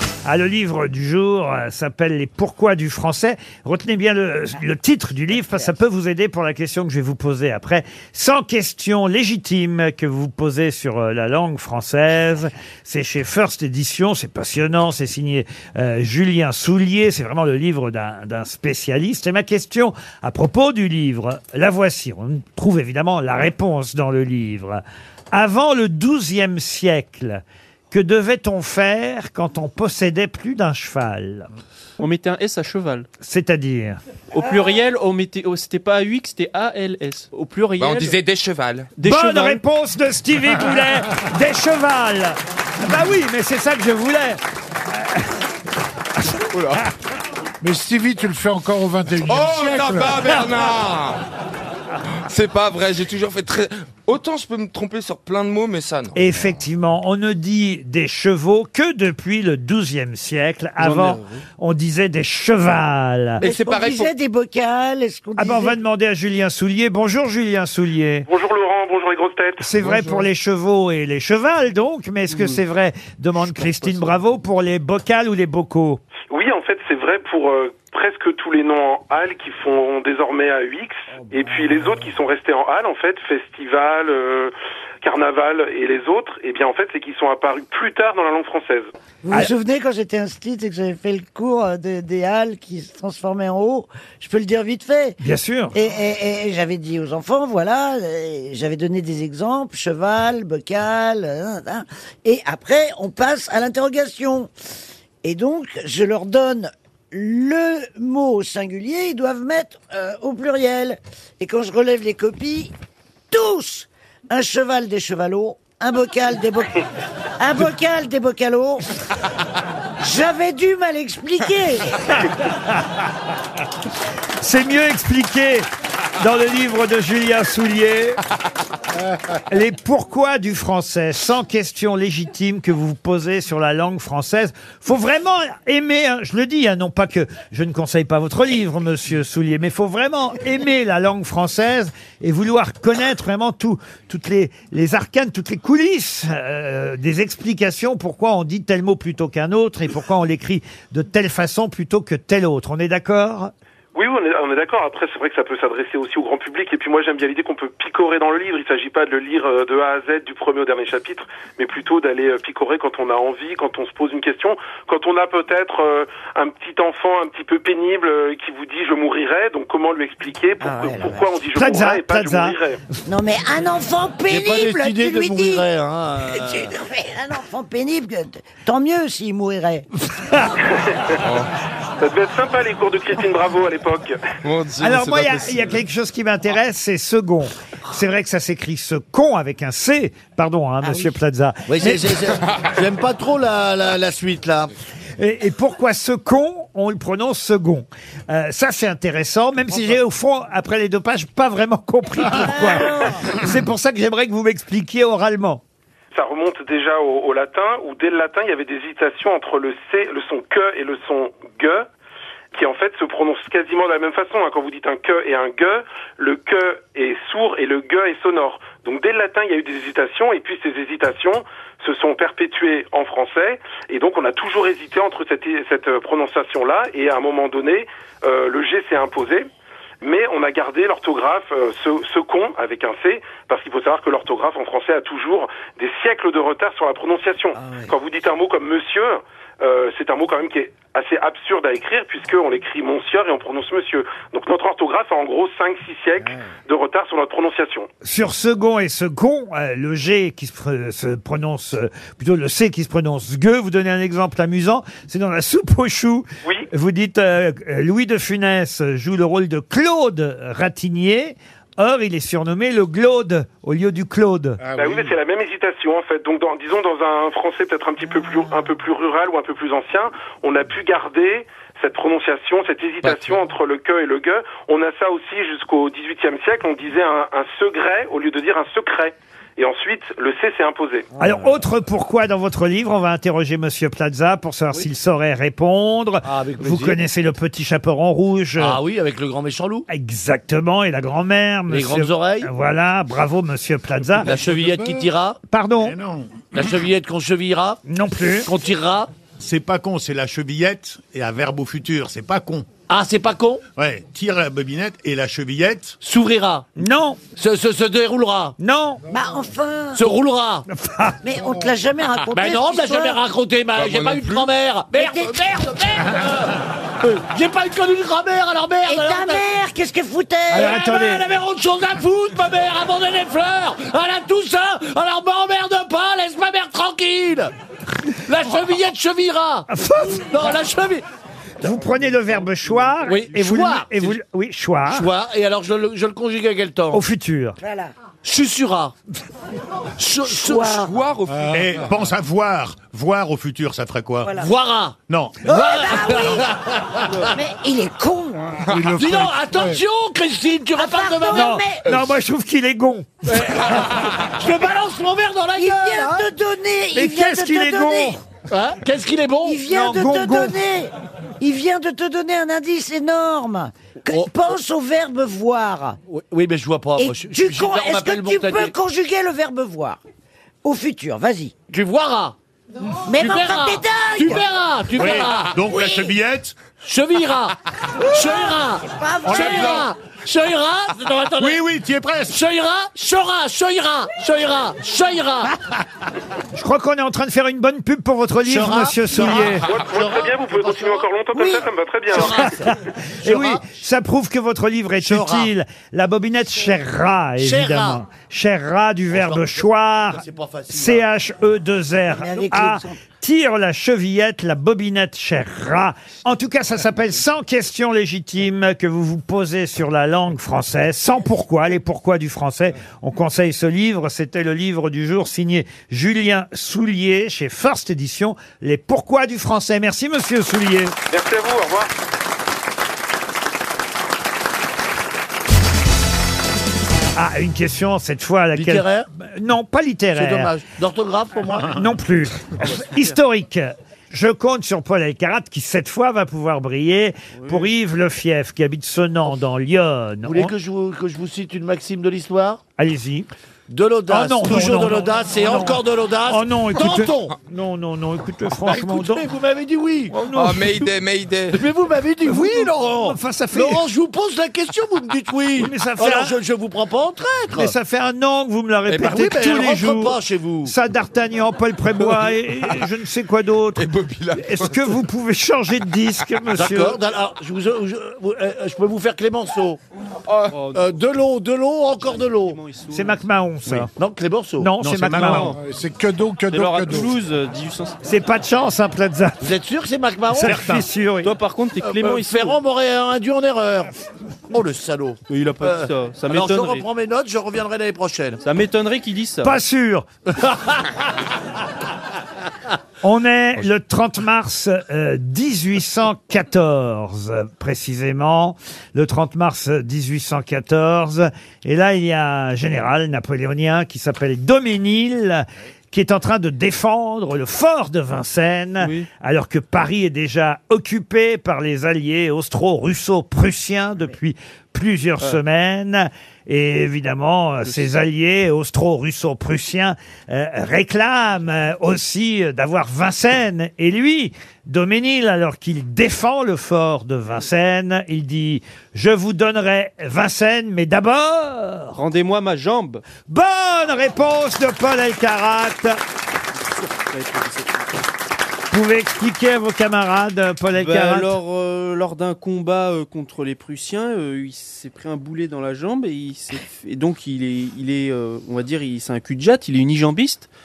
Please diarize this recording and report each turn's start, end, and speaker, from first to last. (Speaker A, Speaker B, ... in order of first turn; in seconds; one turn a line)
Speaker A: 0.2-31.5
Speaker B: 32.0-33.1
Speaker A: 33.2-34.0
Speaker B: 34.3-38.1
Speaker C: 37.8-38.9
Speaker B: 39.0-39.6
Speaker A: 39.0-44.4
Speaker A: 44.9-45.3
Speaker C: 46.5-46.9
Speaker D: 47.6-50.4
Speaker C: 49.3-51.2
Speaker C: 52.2-56.1
Speaker A: 56.1-63.4
Speaker B: 60.8-61.3
Speaker C: 63.4-64.1
Speaker E: 63.4-65.8
Speaker A: 65.4-68.3
Speaker F: 68.3-69.7
Speaker A: 69.6-76.0
Speaker D: 69.8-70.3
Speaker F: 76.3-88.9
Speaker E: 89.2-95.2
Speaker A: 95.2-95.7
Speaker E: 95.7-104.5
Speaker E: 105.2-112.7
Speaker E: 113.3-116.8
Speaker E: 117.4-118.8
Speaker E: 120.0-122.0
Speaker A: 122.5-122.8
Speaker A: 124.4-125.7
Speaker A: 126.2-128.2
Speaker A: 129.5-153.5
Speaker F: 153.9-172.8
Speaker E: 170.6-171.3
Speaker A: 171.5-172.6
Speaker E: 173.1-175.7
Speaker G: 174.3-176.7
Speaker E: 176.3-179.9
Speaker A: 180.0-180.6
Speaker C: 181.2-181.5
Speaker F: 182.0-184.2
Speaker C: 184.4-185.8
Speaker A: 184.8-192.2
Speaker E: 190.8-191.1
Speaker G: 191.7-194.7
Speaker A: 195.2-205.6
Speaker E: 202.2-203.3
Speaker F: 206.1-211.9
Speaker F: 212.5-229.5
Speaker F: 230.0-247.9
Speaker E: 237.6-237.9
Speaker A: 248.0-264.6
Speaker D: 264.6-265.1
Speaker F: 264.7-281.1
Speaker H: 273.0-273.4
Speaker G: 281.2-281.6
Speaker A: 281.2-288.8
Speaker G: 286.2-287.0
Speaker G: 288.6-289.9
Speaker A: 289.9-294.3
Speaker G: 291.7-292.5
Speaker G: 294.2-295.4
Speaker H: 294.3-295.0
Speaker A: 295.5-295.9
Speaker H: 295.8-296.5
Speaker G: 296.5-297.8
Speaker A: 297.9-298.5
Speaker G: 298.4-299.1
Speaker H: 299.4-302.7
Speaker G: 302.9-303.6
Speaker H: 303.8-306.0
Speaker G: 306.0-306.7
Speaker A: 306.8-307.2
Speaker G: 307.4-308.6
Speaker A: 308.6-309.0
Speaker E: 309.1-310.1
Speaker G: 309.9-310.6
Speaker A: 310.7-311.2
Speaker E: 311.2-313.2
Speaker G: 312.3-319.4
Speaker C: 313.7-314.5
Speaker E: 314.9-315.8
Speaker E: 318.8-320.8
Speaker A: 320.5-321.2
Speaker G: 320.5-327.5
Speaker G: 328.1-331.0
Speaker A: 329.7-330.6
Speaker A: 331.6-335.1
Speaker G: 333.0-334.2
Speaker G: 334.9-337.0
Speaker A: 336.9-337.6
Speaker E: 337.6-337.9
Speaker G: 338.2-338.9
Speaker G: 340.0-340.9
Speaker E: 340.4-340.9
Speaker C: 340.6-341.8
Speaker D: 341.3-341.9
Speaker H: 341.5-344.4
Speaker E: 344.2-344.5
Speaker G: 344.3-347.3
Speaker H: 345.1-345.4
Speaker E: 345.4-346.5
Speaker E: 347.3-348.6
Speaker D: 348.7-349.8
Speaker G: 348.9-351.6
Speaker E: 350.7-351.9
Speaker A: 351.3-353.3
Speaker G: 353.3-356.3
Speaker E: 355.6-358.2
Speaker A: 356.9-358.2
Speaker G: 358.5-359.6
Speaker E: 359.4-366.0
Speaker A: 359.6-360.6
Speaker G: 366.1-368.7
Speaker E: 367.0-370.0
Speaker E: 370.6-371.5
Speaker G: 371.7-372.4
Speaker E: 373.0-374.5
Speaker G: 373.1-375.6
Speaker H: 374.9-376.6
Speaker E: 375.6-376.1
Speaker G: 376.8-381.6
Speaker E: 378.0-379.9
Speaker H: 379.2-379.9
Speaker H: 381.4-382.4
Speaker G: 382.3-385.5
Speaker A: 386.5-389.7
Speaker G: 388.4-391.1
Speaker F: 389.6-392.3
Speaker G: 392.1-392.7
Speaker A: 392.2-420.9
Speaker G: 393.2-393.6
Speaker G: 395.0-395.5
Speaker G: 397.4-398.0
Speaker G: 399.1-401.0
Speaker E: 402.1-403.0
Speaker F: 421.1-421.9
Speaker A: 427.1-430.5
Speaker G: 428.5-429.1
Speaker G: 430.1-431.8
Speaker A: 431.5-440.5
Speaker B: 432.8-433.1
Speaker B: 437.4-437.7
Speaker G: 440.2-442.6
Speaker A: 442.8-443.3
Speaker G: 443.7-447.3
Speaker A: 444.1-449.2
Speaker G: 448.6-450.2
Speaker A: 450.1-450.9
Speaker C: 450.3-451.6
Speaker G: 451.5-457.7
Speaker A: 452.2-453.8
Speaker A: 455.6-456.4
Speaker A: 457.6-467.0
Speaker G: 458.9-460.7
Speaker C: 463.8-464.9
Speaker G: 466.5-469.8
Speaker C: 470.3-470.6
Speaker B: 470.5-470.9
Speaker G: 470.7-472.6
Speaker B: 472.0-473.2
Speaker A: 472.9-473.9
Speaker G: 473.8-474.7
Speaker A: 474.6-475.5
Speaker H: 474.8-475.6
Speaker B: 475.2-475.6
Speaker D: 475.5-477.1
Speaker B: 476.5-478.0
Speaker A: 478.0-479.4
Speaker G: 479.4-480.8
Speaker A: 480.3-481.3
Speaker B: 481.2-482.6
Speaker G: 481.8-483.9
Speaker G: 484.5-488.4
Speaker B: 485.3-486.9
Speaker B: 488.4-489.6
Speaker A: 489.4-490.1
Speaker G: 490.3-490.9
Speaker A: 493.0-531.9
Speaker B: 508.8-509.1
Speaker B: 531.9-533.0
Speaker A: 533.3-536.0
Speaker B: 536.6-538.0
Speaker A: 538.7-541.3
Speaker B: 540.7-550.5